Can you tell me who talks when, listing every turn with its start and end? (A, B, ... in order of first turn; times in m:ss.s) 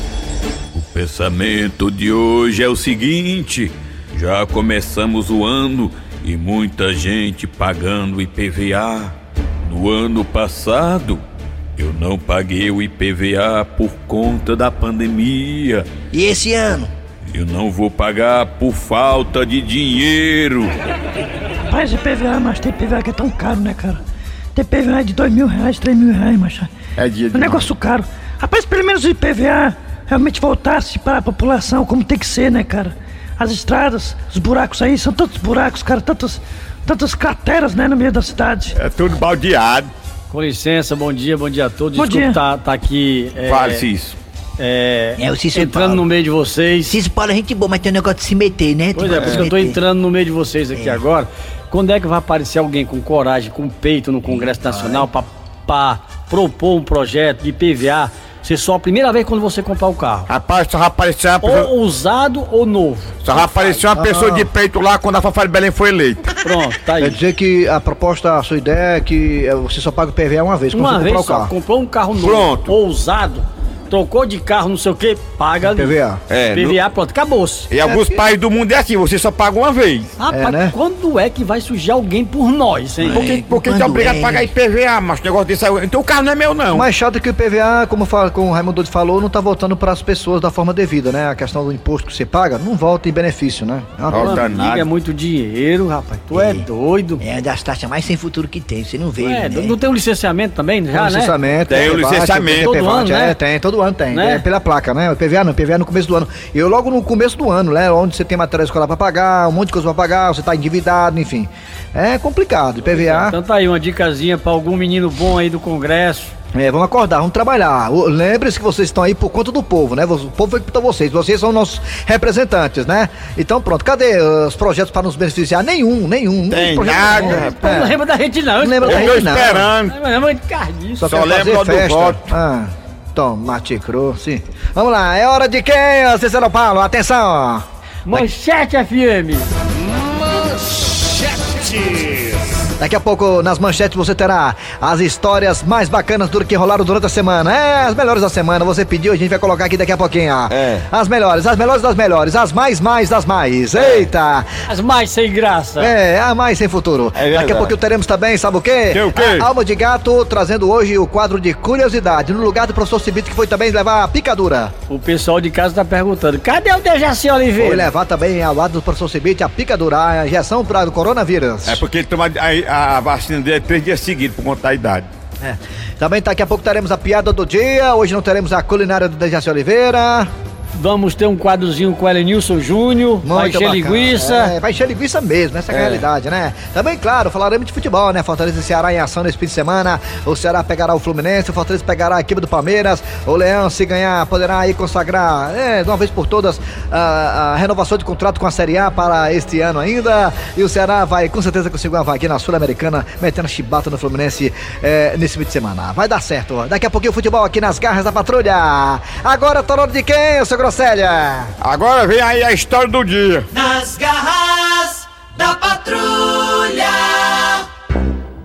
0:00.7-0:11.2 A
0:11.8-0:15.9 A
0:16.1-0:16.9 B
0:17.3-0:20.7 A
0:21.7-0:24.0 C
0:24.6-0:26.7 C
0:27.0-0:27.7 D
0:27.3-0:38.7 C
0:38.7-0:39.9 D
0:40.3-0:43.9 E
0:42.0-0:42.4 C
0:43.4-0:44.2 D
0:44.6-0:47.0 E
0:45.2-0:46.0 B
0:46.9-0:49.8 B
0:49.0-1:00.3 E
0:49.2-0:49.5 D
1:00.3-1:01.7 D
1:01.4-1:03.8 E
1:03.2-1:06.4 D
1:03.9-1:04.5 F
1:06.4-1:07.2 E
1:07.0-1:11.5 F
1:10.7-1:15.9 E
1:12.2-1:12.7 D
1:15.6-1:16.2 F
1:16.3-1:16.8 D
1:16.5-1:17.7 E
1:17.7-1:20.1 D
1:17.8-1:18.3 F
1:20.2-1:23.3 E
1:20.3-1:20.8 F
1:23.0-1:26.9 D
1:23.1-1:24.5 B
1:26.7-1:34.3 F
1:34.1-1:34.9 D
1:34.1-1:37.2 E
1:36.3-1:36.7 B
1:37.2-1:39.8 B
1:39.2-1:41.4 E
1:40.9-1:53.4 F
1:41.7-1:42.7 D
1:42.5-1:43.4 E
1:44.1-1:44.4 E
1:52.8-1:56.3 E
1:56.5-2:07.9 F
2:06.5-2:07.6 D
2:07.1-2:11.2 E
2:08.6-2:09.7 F
2:08.8-2:10.0 D
2:11.0-2:18.2 F
2:11.1-2:12.2 D
2:18.1-2:19.5 E
2:21.9-2:22.2 D
2:22.8-2:34.5 F
2:30.5-2:30.8 D
2:33.8-2:34.1 D
2:34.7-2:35.9 E
2:35.8-2:44.7 F
2:37.2-2:37.7 D
2:38.9-2:39.5 D
2:44.9-2:47.9 E
2:47.6-2:51.8 F
2:51.7-2:55.1 D
2:55.4-3:00.3 F
3:00.8-3:04.6 E
3:03.2-3:31.5 F
3:31.6-3:33.5 D
3:33.5-3:37.7 G